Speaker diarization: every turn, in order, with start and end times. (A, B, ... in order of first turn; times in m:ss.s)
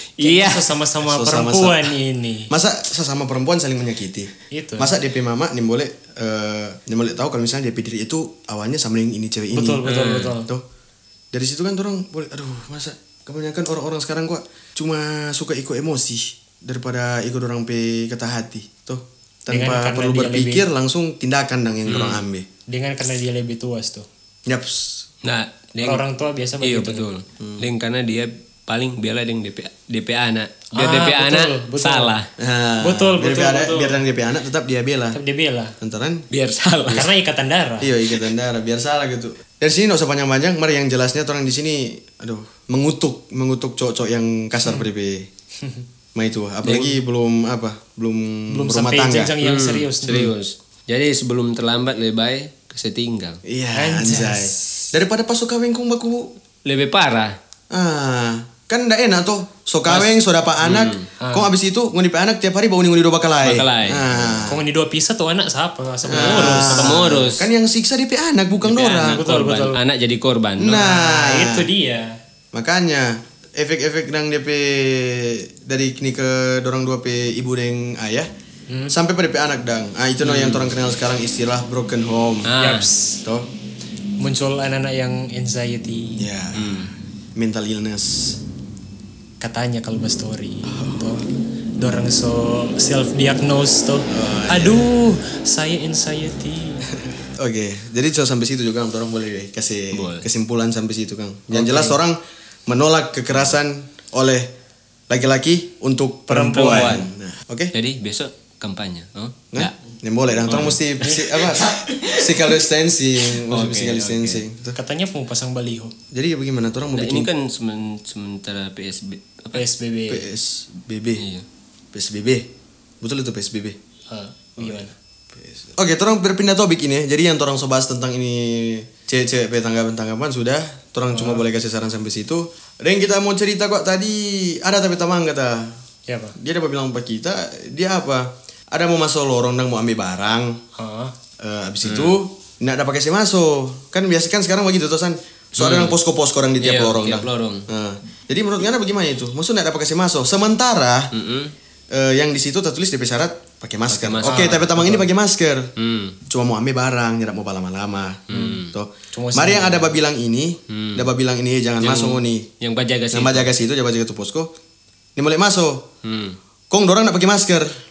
0:00.2-0:00.7 A
0:00.2-0:02.5 B
0:01.0-0:01.9 C
0:02.5-0:09.8 C
0:04.5-0:04.9 B
0:09.5-0:10.5 B
0:09.8-0:10.4 A
0:11.3-0:22.5 C
0:19.5-0:20.6 B
0:21.9-0:22.2 A
0:22.7-0:24.1 B
0:24.4-0:25.1 C
0:25.2-0:26.0 A
0:25.8-0:27.1 B
0:26.6-0:32.3 A
0:27.4-0:27.7 C
0:30.7-0:32.1 B
0:32.4-0:35.2 C
0:32.8-0:34.0 B
0:35.1-0:35.7 B
0:35.8-0:36.2 C
0:36.3-0:37.1 A
0:36.9-0:37.9 B
0:37.8-0:45.3 C
0:46.1-0:49.3 C
0:48.5-0:50.3 B
0:49.4-0:53.4 A
0:53.4-0:56.3 C
0:53.7-0:54.9 B
0:56.6-0:57.4 A
0:57.7-1:04.6 C
0:59.8-1:01.1 A
1:01.2-1:01.5 B
1:03.4-1:04.5 A
1:04.5-1:07.0 B
1:06.0-1:09.2 C
1:06.1-1:07.5 A
1:08.6-1:10.8 A
1:09.0-1:09.8 B
1:10.6-1:11.7 C
1:10.6-1:12.2 B
1:12.5-1:18.3 C
1:18.9-1:22.5 C
1:20.2-1:20.7 A
1:22.4-1:22.9 A
1:22.6-1:23.2 B
1:24.2-1:26.3 B
1:26.2-1:28.4 C
1:26.5-1:26.9 A
1:29.4-1:31.2 B
1:30.6-1:31.2 C
1:31.8-1:37.0 B
1:34.1-1:34.9 C
1:37.4-1:44.5 C
1:39.9-1:40.2 A
1:41.5-1:42.0 B
1:45.1-1:47.7 C
1:46.3-1:47.0 B
1:46.5-1:47.1 A
1:47.7-1:49.7 A
1:49.5-1:54.8 C
1:50.4-1:52.4 A
1:53.3-1:54.4 A
1:54.8-1:55.9 B
1:56.1-1:57.3 C
1:56.9-1:59.6 A
1:59.5-2:00.2 B
2:00.1-2:01.2 C
2:01.2-2:01.4 A
2:01.9-2:02.5 C
2:03.0-2:03.8 C
2:04.1-2:04.9 B
2:04.6-2:15.7 C
2:11.1-2:11.4 B
2:16.1-2:16.4 B
2:16.3-2:20.6 C
2:20.8-2:21.1 B
2:21.4-2:31.1 C
2:21.8-2:22.2 A
2:25.6-2:26.0 A
2:26.6-2:27.7 A
2:31.1-2:31.5 A
2:31.9-2:35.7 C
2:33.9-2:35.1 A
2:35.8-2:36.2 A
2:36.3-2:42.5 C
2:38.3-2:38.7 A
2:39.1-2:39.9 B
2:40.7-2:41.1 A
2:41.8-2:43.5 A
2:43.1-2:44.5 C
2:45.2-2:45.9 C
2:46.0-2:46.4 A
2:46.7-2:47.7 C